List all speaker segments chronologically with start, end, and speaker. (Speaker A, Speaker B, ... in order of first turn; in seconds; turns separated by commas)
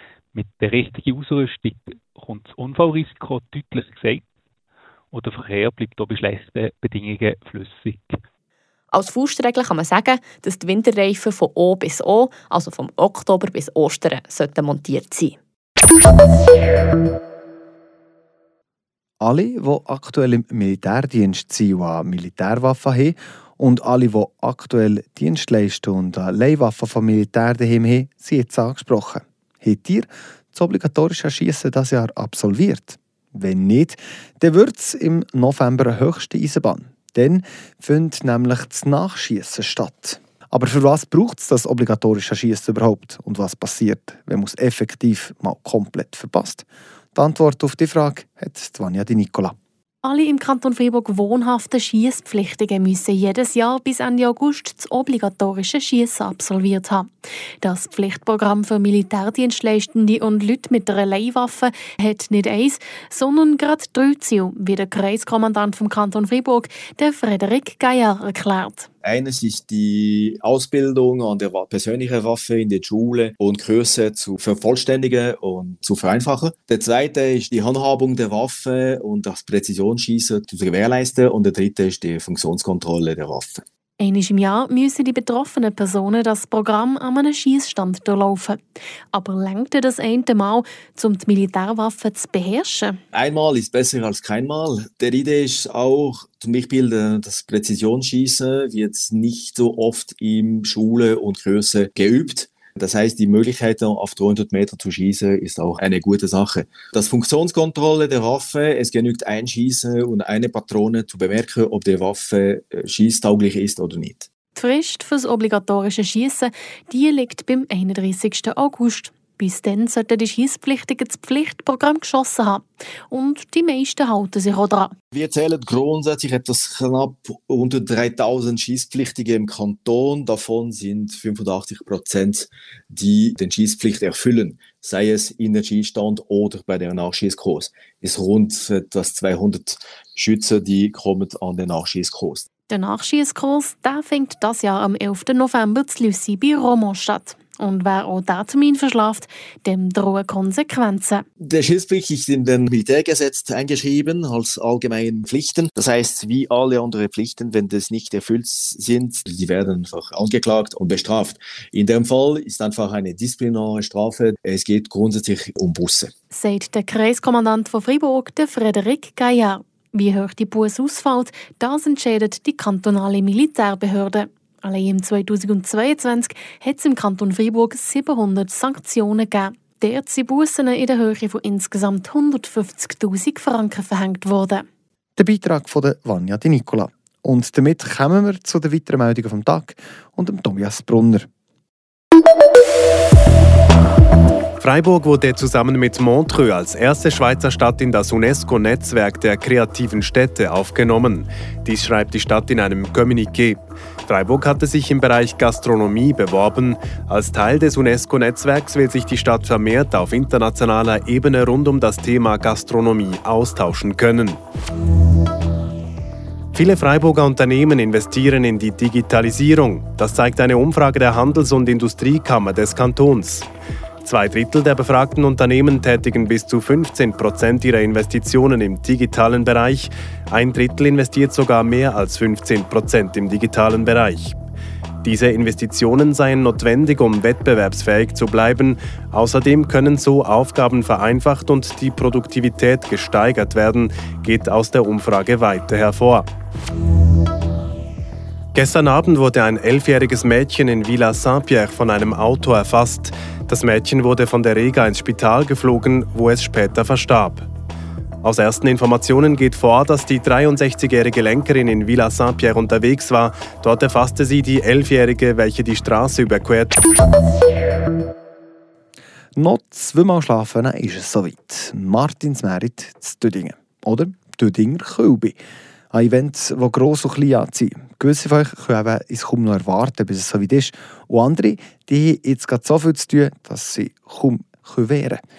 Speaker A: 0.3-4.2, Speaker A: 5.1-8.2, Speaker B: 8.9-15.4, Speaker C: 19.2-49.5, Speaker D: 50.0-57.1, Speaker D: 57.6-68.9, Speaker E: 69.0-83.6, Speaker D: 84.0-88.6, Speaker D: 89.1-93.0, Speaker E: 93.1-114.3, Speaker D: 114.5-124.9, Speaker E: 125.1-142.4, Speaker D: 142.7-151.2, Speaker E: 151.4-166.1, Speaker D: 166.3-184.7, Speaker C: 185.2-191.3, Speaker F: 194.6-214.4, Speaker F: 216.5-223.4, Speaker F: 224.0-234.3, Speaker F: 235.0-246.2, Speaker F: 248.5-257.5, Speaker F: 258.2-266.7, Speaker C: 269.4-275.4, Speaker C: 275.9-285.2